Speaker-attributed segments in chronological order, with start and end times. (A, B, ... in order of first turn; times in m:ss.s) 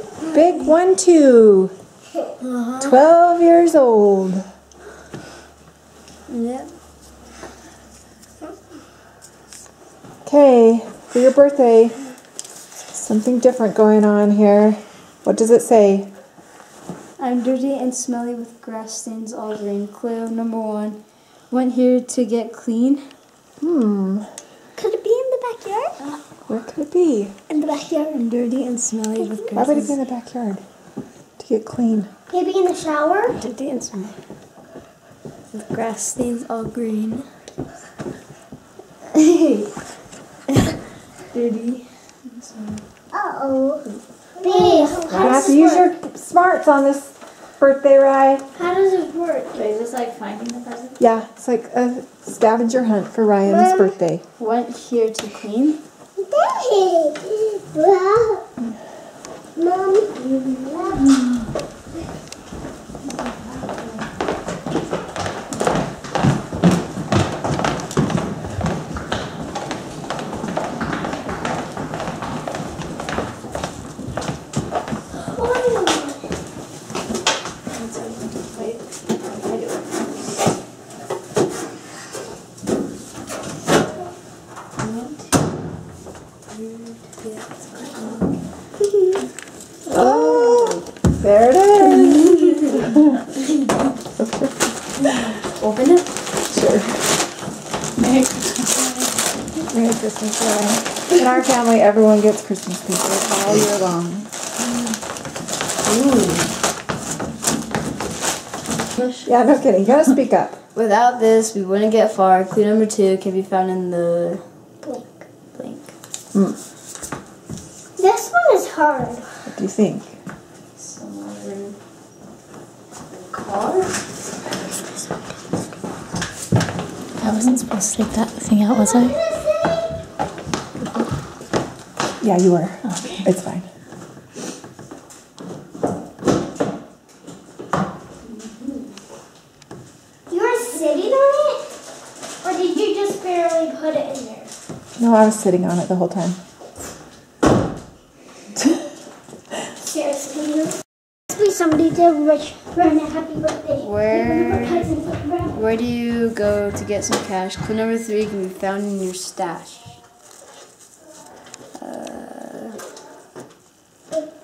0:00.2-0:01.7 A
0:02.4-0:02.9 B
0:02.8-0:04.4 A
0:06.3-0:06.7 B
0:10.2-0:12.0 A
0:12.9-0:16.1 A
0:17.2-0:23.1 B
0:23.6-0:24.3 A
0:24.8-0:26.0 C
0:26.5-0:27.3 A
0:27.5-0:28.2 C
0:28.1-0:30.0 B
0:29.5-0:30.6 A
0:31.4-0:32.1 A
0:32.3-0:33.4 C
0:33.3-0:34.1 B
0:35.5-0:37.3 B
0:39.1-0:39.7 B
0:41.3-0:42.8 B
0:43.1-0:43.8 C
0:44.4-0:45.9 C
0:44.4-0:45.6 B
0:45.1-0:48.4 A
0:48.5-0:49.5 C
0:49.5-0:51.0 B
0:51.0-0:54.2 A
0:53.4-0:53.9 C
0:54.4-0:55.8 B
0:56.2-0:58.4 C
0:59.6-1:01.1 C
1:01.0-1:01.4 B
1:15.2-1:16.2 C
1:17.7-1:20.1 B
1:24.8-1:25.3 B
1:26.5-1:28.3 B
1:29.8-1:30.8 B
1:29.9-1:33.1 A
1:32.0-1:32.9 B
1:34.2-1:34.5 A
1:35.4-1:36.1 B
1:36.5-1:37.0 A
1:38.0-1:38.6 D
1:39.6-1:44.3 A
1:45.8-1:46.5 B
1:49.2-1:50.6 A
1:50.7-1:54.4 B
1:54.8-1:55.2 C
1:55.5-1:55.9 B
1:58.0-1:59.5 C
1:59.5-2:00.1 A
2:00.8-2:01.8 B
2:03.1-2:04.0 B
2:07.2-2:09.2 D
2:08.7-2:09.9 C
2:08.8-2:09.1 B
2:12.2-2:13.6 A
2:20.3-2:21.7 C
2:22.4-2:24.5 C
2:25.0-2:26.4 A
2:31.8-2:35.6 C
2:33.8-2:34.9 B
2:35.5-2:40.0 B
2:41.7-2:42.8 B